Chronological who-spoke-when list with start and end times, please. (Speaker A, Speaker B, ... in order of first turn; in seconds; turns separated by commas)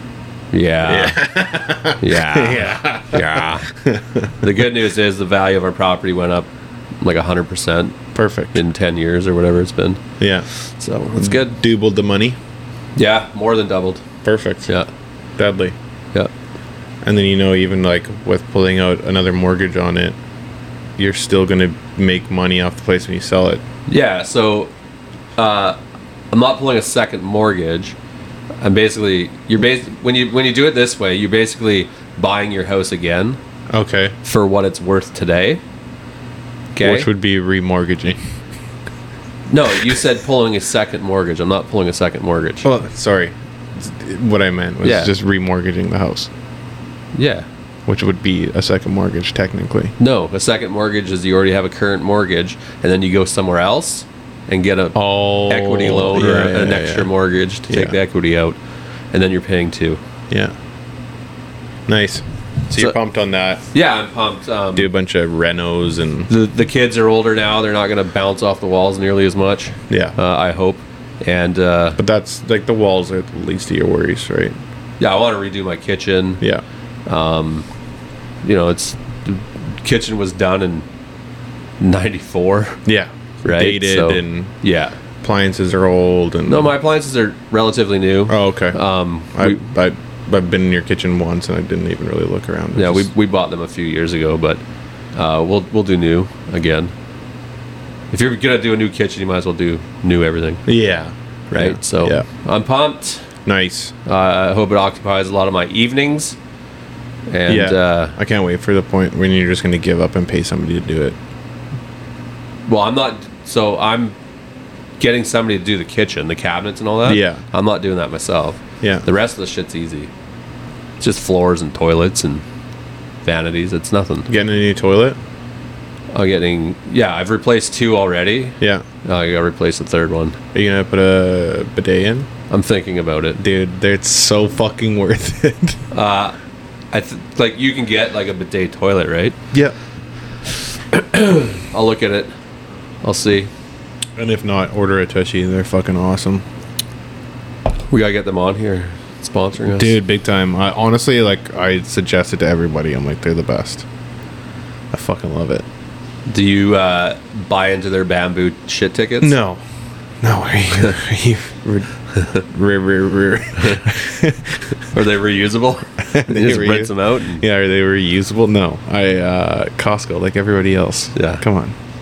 Speaker A: 0.5-1.3, Speaker B: 0.8-4.5, Speaker A: 2.0-3.7, Speaker A: 4.4-6.5, Speaker A: 7.0-8.0, Speaker B: 8.2-8.6, Speaker A: 8.5-10.0, Speaker B: 10.2-10.5, Speaker A: 10.5-11.5, Speaker B: 11.2-12.4, Speaker A: 13.0-14.0, Speaker B: 14.2-14.7, Speaker B: 15.4-15.8, Speaker B: 17.0-20.2, Speaker B: 21.0-23.6, Speaker A: 23.9-24.7, Speaker A: 25.4-25.8, Speaker A: 26.3-28.0, Speaker A: 28.6-33.4, Speaker B: 33.7-34.1, Speaker A: 34.2-35.6, Speaker A: 36.8-37.1, Speaker B: 36.8-38.2, Speaker A: 39.5-42.6, Speaker B: 42.6-46.3, Speaker A: 44.8-45.1, Speaker A: 47.1-47.5, Speaker B: 47.9-50.0, Speaker A: 50.0-58.6, Speaker B: 55.0-57.1, Speaker B: 57.7-58.0, Speaker A: 59.1-60.0, Speaker B: 61.9-63.6, Speaker A: 63.7-64.9, Speaker B: 64.8-66.3, Speaker A: 66.3-72.0, Speaker B: 69.9-70.2, Speaker B: 72.0-74.6, Speaker A: 75.0-76.4, Speaker A: 77.1-77.7, Speaker A: 78.4-80.9, Speaker A: 81.8-82.8, Speaker B: 82.9-84.5, Speaker A: 83.4-85.0, Speaker B: 85.2-86.7, Speaker A: 86.5-89.6, Speaker B: 88.3-88.8, Speaker B: 89.3-93.1, Speaker A: 92.8-94.6, Speaker A: 95.1-96.9, Speaker A: 98.1-100.7, Speaker B: 100.7-102.3, Speaker A: 101.5-103.3, Speaker B: 103.5-103.9, Speaker A: 104.1-106.4, Speaker A: 107.3-108.2, Speaker B: 107.5-111.2, Speaker A: 112.7-114.2, Speaker A: 115.0-120.1, Speaker B: 117.1-117.4, Speaker B: 118.8-119.1, Speaker A: 121.0-122.4, Speaker A: 123.2-124.3, Speaker B: 124.3-125.2, Speaker A: 126.1-130.4, Speaker B: 130.5-132.3, Speaker A: 132.5-133.4, Speaker B: 133.4-135.8, Speaker A: 135.9-136.4, Speaker A: 136.9-139.4, Speaker A: 140.9-142.3, Speaker A: 143.0-143.5, Speaker B: 144.2-146.4, Speaker A: 147.9-150.0, Speaker B: 149.7-153.8, Speaker B: 154.9-155.7, Speaker A: 156.3-159.3, Speaker B: 159.2-159.6, Speaker B: 160.2-164.7, Speaker A: 163.6-163.8, Speaker A: 164.9-167.4, Speaker B: 166.1-171.8, Speaker A: 171.2-171.4